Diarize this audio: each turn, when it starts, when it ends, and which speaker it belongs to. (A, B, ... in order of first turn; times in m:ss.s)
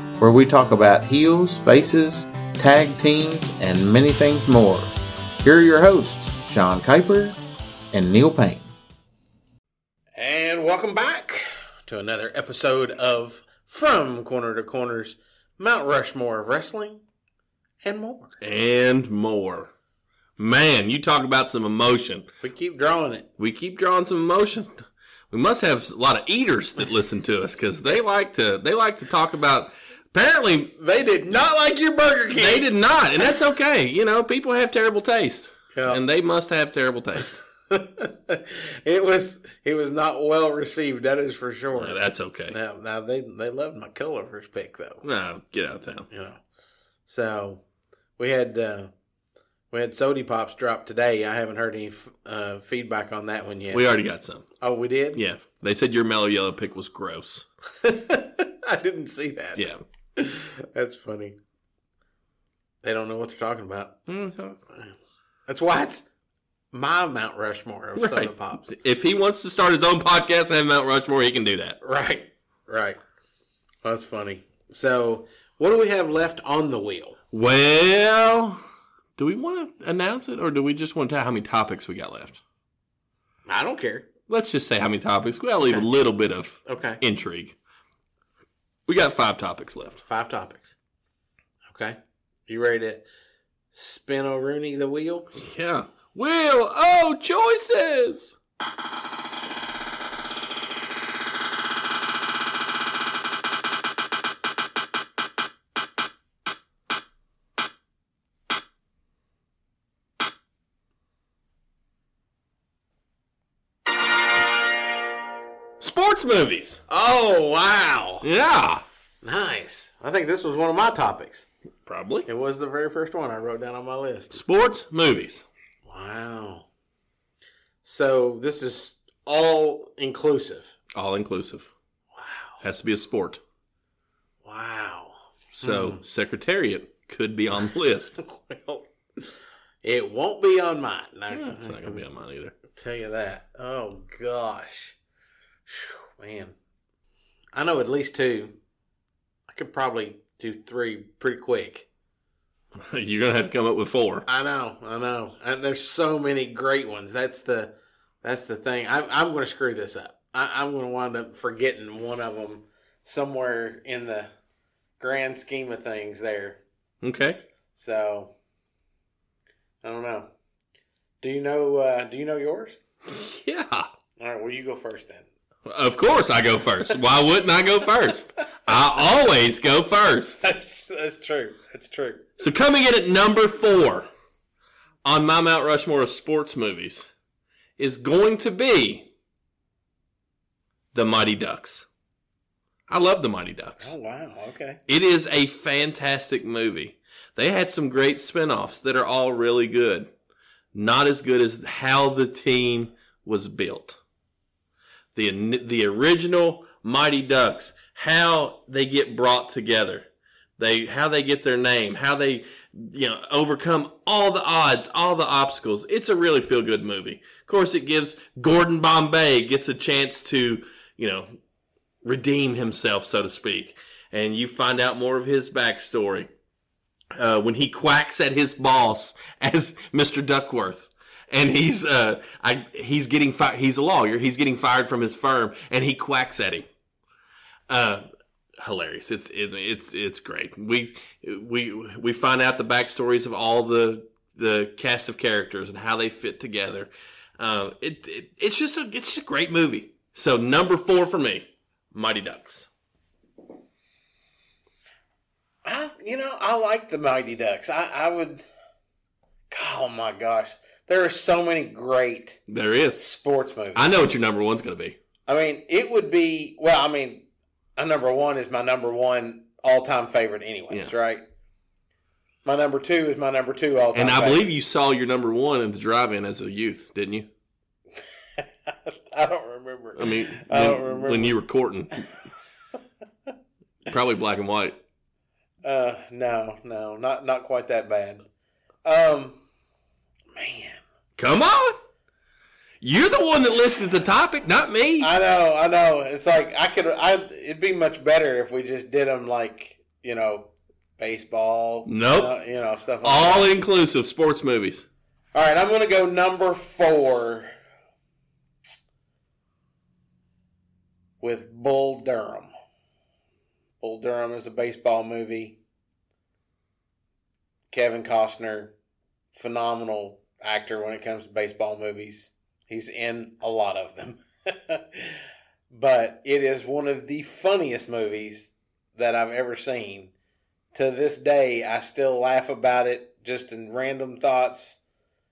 0:00.2-0:07.4 A
0:07.9-0:08.7 A
0:10.2-0:17.0 A
0:17.8-0:18.4 A
0:18.4-0:19.7 B
0:20.4-0:22.3 B
0:22.4-0:23.3 A
0:23.4-0:30.8 B
0:30.8-0:32.7 A
0:32.4-0:37.4 B
0:35.8-0:36.0 A
0:37.7-0:45.0 A
0:41.8-0:42.6 B
0:45.0-0:46.1 B
0:46.1-0:46.4 A
0:47.1-0:47.6 A
0:48.2-0:48.9 A
0:49.7-0:53.8 A
0:53.7-0:54.5 B
0:54.6-0:55.2 A
0:55.2-0:57.5 B
0:57.8-1:01.4 A
0:59.6-0:59.8 B
1:02.8-1:04.0 A
1:04.1-1:04.6 B
1:05.5-1:06.0 A
1:06.7-1:08.7 A
1:08.0-1:11.8 B
1:11.8-1:13.0 A
1:13.8-1:17.2 A
1:17.3-1:18.6 B
1:19.2-1:22.4 B
1:23.5-1:24.1 A
1:24.3-1:27.6 B
1:25.6-1:25.9 A
1:26.7-1:27.0 A
1:28.9-1:30.0 B
1:30.0-1:30.8 A
1:31.7-1:32.0 A
1:32.5-1:33.1 A
1:33.7-1:35.3 A
1:35.4-1:38.3 B
1:55.8-1:56.8 B
1:56.9-1:58.3 A
1:58.2-1:58.8 B
1:59.2-2:01.5 A
2:01.9-2:02.3 B
2:02.3-2:04.4 A
2:04.3-2:05.5 B
2:05.9-2:06.7 A
2:07.8-2:10.8 A
2:11.0-2:11.7 B
2:12.1-2:12.6 A
2:12.6-2:13.4 B
2:14.4-2:16.0 A
2:15.6-2:18.2 B
2:18.2-2:19.3 A
2:19.8-2:22.0 A
2:21.3-2:22.5 B
2:22.7-2:25.0 A
2:25.7-2:26.6 A
2:27.5-2:28.6 A
2:29.5-2:31.9 A
2:32.8-2:34.3 B
2:34.3-2:44.3 A
2:45.0-2:46.6 A
2:47.0-2:47.4 B
2:47.7-2:48.3 A
2:49.8-2:50.3 A
2:51.2-2:52.8 A
2:53.1-2:53.9 B
2:54.2-2:55.3 A
2:55.7-3:00.4 B
3:00.4-3:02.3 A
3:02.4-3:04.1 B
3:05.0-3:07.1 B
3:07.8-3:09.1 B
3:10.9-3:11.9 B
3:12.9-3:13.9 B
3:13.8-3:14.8 A
3:14.9-3:20.1 B
3:20.7-3:24.0 B
3:25.2-3:30.1 B
3:30.6-3:41.4 B
3:42.0-3:46.3 B
3:47.2-3:56.7 B
3:57.7-3:58.0 B
3:58.6-4:12.7 B
4:15.6-4:18.5 A
4:19.5-4:22.4 A
4:22.5-4:23.0 B
4:23.0-4:23.9 A
4:23.8-4:25.0 B
4:25.3-4:27.2 A
4:27.8-4:31.2 A
4:32.4-4:34.5 A
4:34.0-4:37.3 B
4:38.4-4:41.4 A
4:40.0-4:42.0 B
4:43.9-4:44.8 B
4:45.6-4:48.2 A
4:48.8-4:49.4 A
4:50.3-4:50.8 A
4:51.2-4:51.8 B
4:52.8-4:55.1 B
4:55.0-5:03.5 A
5:01.9-5:02.3 B
5:03.0-5:04.9 B
5:05.3-5:07.5 A
5:11.2-5:12.5 A
5:13.8-5:15.6 A
5:17.7-5:18.8 A
5:19.3-5:25.2 A
5:25.7-5:30.1 A
5:30.7-5:34.8 A